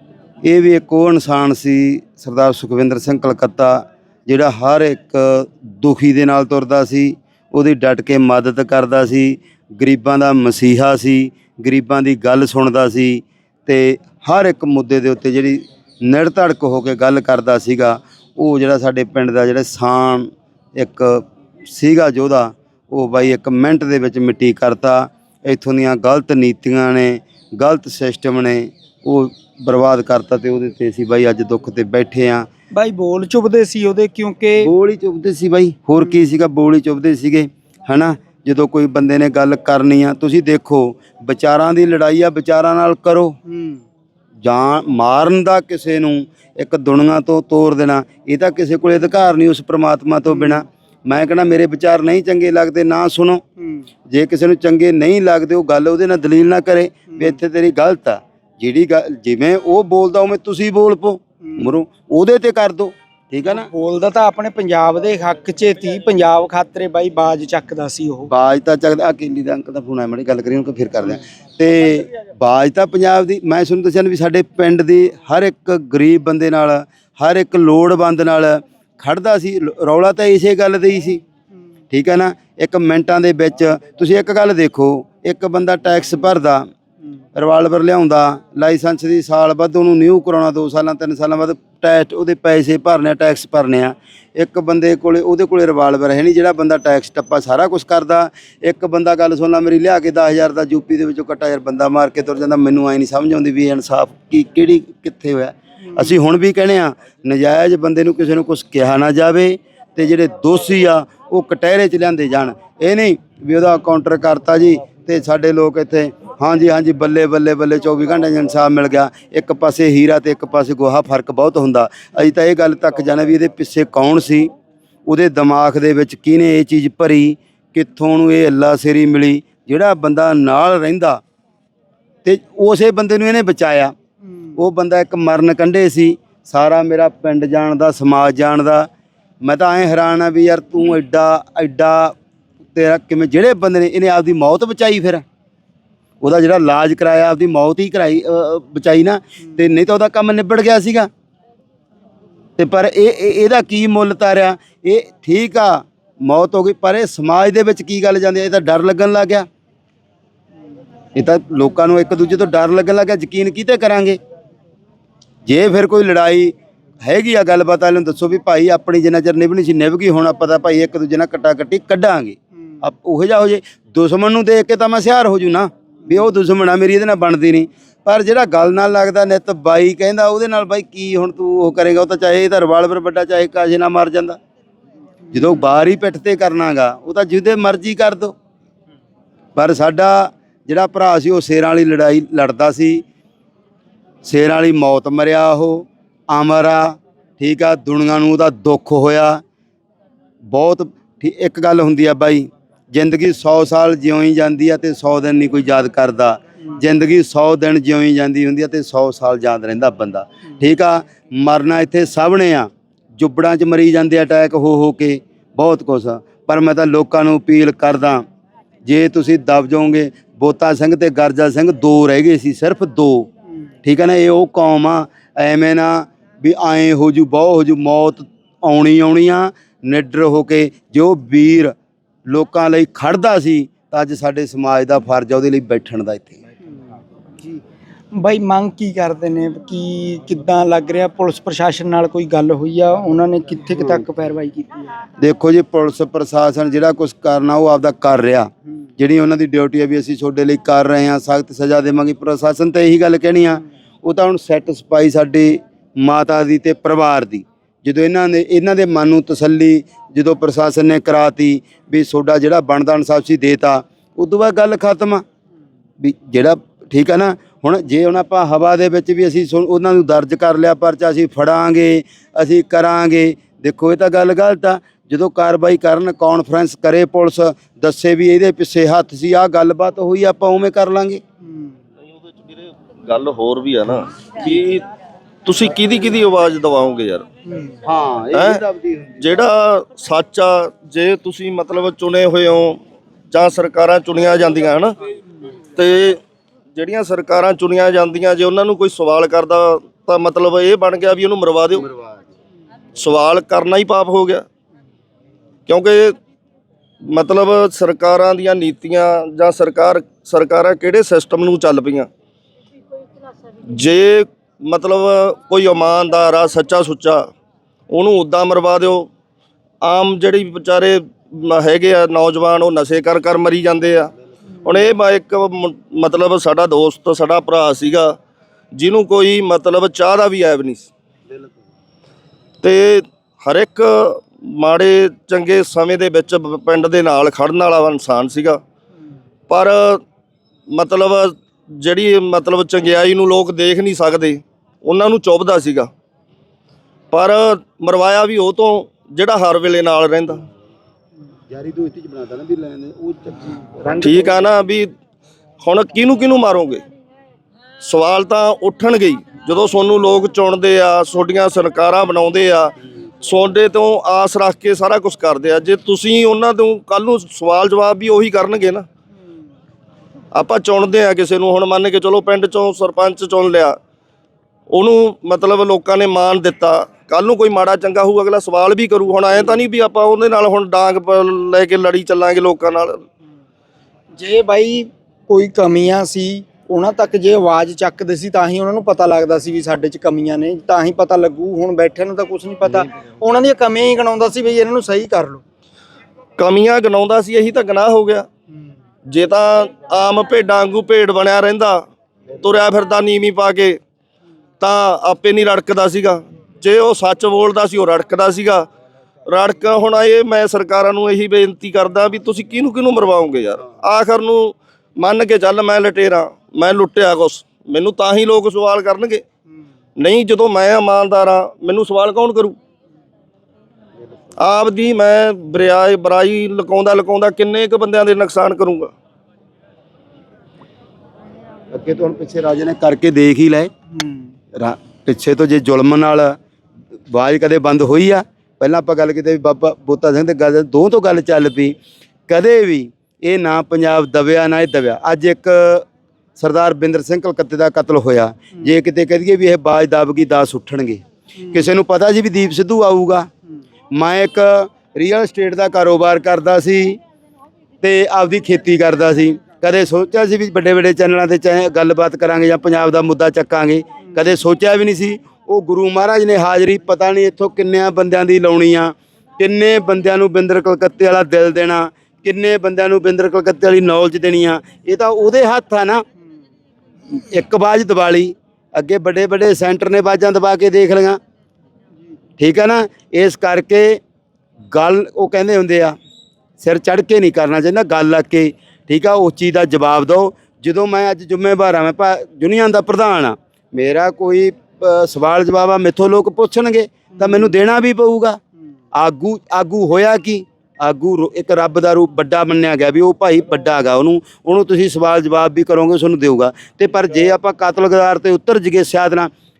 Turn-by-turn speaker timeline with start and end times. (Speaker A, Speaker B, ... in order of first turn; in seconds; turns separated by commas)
Speaker A: 0.4-32.5, Speaker B: 32.7-34.7, Speaker A: 34.6-43.4, Speaker B: 43.5-43.8, Speaker A: 44.4-53.4, Speaker B: 50.3-50.6, Speaker A: 54.1-63.7, Speaker B: 63.5-68.3, Speaker A: 68.3-81.2, Speaker A: 81.9-86.7, Speaker A: 87.3-124.5, Speaker A: 125.1-131.2, Speaker A: 132.2-133.9, Speaker A: 134.6-138.9, Speaker A: 139.4-142.1, Speaker A: 142.7-145.2, Speaker A: 146.2-151.1, Speaker A: 152.6-159.5, Speaker A: 161.1-164.2, Speaker A: 165.4-184.4, Speaker A: 185.3-188.3, Speaker A: 189.5-193.0, Speaker A: 194.2-199.4, Speaker A: 200.5-218.2, Speaker A: 218.8-223.3, Speaker A: 223.8-231.7, Speaker A: 232.3-236.4, Speaker B: 238.1-244.8, Speaker A: 245.2-265.2, Speaker A: 266.0-281.2, Speaker C: 282.3-284.8, Speaker C: 285.4-287.2, Speaker B: 287.5-287.7, Speaker A: 287.8-289.4, Speaker C: 288.3-288.6, Speaker C: 289.2-292.8, Speaker C: 293.3-294.9, Speaker C: 295.8-296.2, Speaker C: 296.7-301.9, Speaker C: 302.9-304.4, Speaker C: 305.7-306.2, Speaker C: 307.1-312.1, Speaker C: 313.7-317.3, Speaker C: 317.9-319.1, Speaker C: 319.8-324.1, Speaker C: 324.6-328.2, Speaker C: 328.7-330.9, Speaker C: 332.6-338.6, Speaker C: 339.5-340.0, Speaker C: 340.7-345.9, Speaker C: 347.1-350.4, Speaker A: 351.5-354.4, Speaker C: 354.0-354.9, Speaker C: 355.6-356.8, Speaker C: 357.8-368.9, Speaker C: 370.3-373.8, Speaker C: 374.7-383.0, Speaker B: 384.2-395.4, Speaker C: 396.4-398.3, Speaker C: 399.1-401.9, Speaker C: 402.4-403.8, Speaker C: 404.6-408.7, Speaker C: 409.3-419.2, Speaker C: 420.0-422.6, Speaker C: 424.4-428.9, Speaker A: 431.7-433.7, Speaker B: 433.9-434.3, Speaker A: 434.5-436.4, Speaker A: 437.1-441.7, Speaker A: 442.3-445.8, Speaker A: 446.4-453.3, Speaker A: 453.9-457.0, Speaker A: 457.8-476.0, Speaker A: 477.1-481.2, Speaker A: 482.4-484.0, Speaker A: 484.7-485.9, Speaker A: 486.6-498.4, Speaker A: 498.9-509.3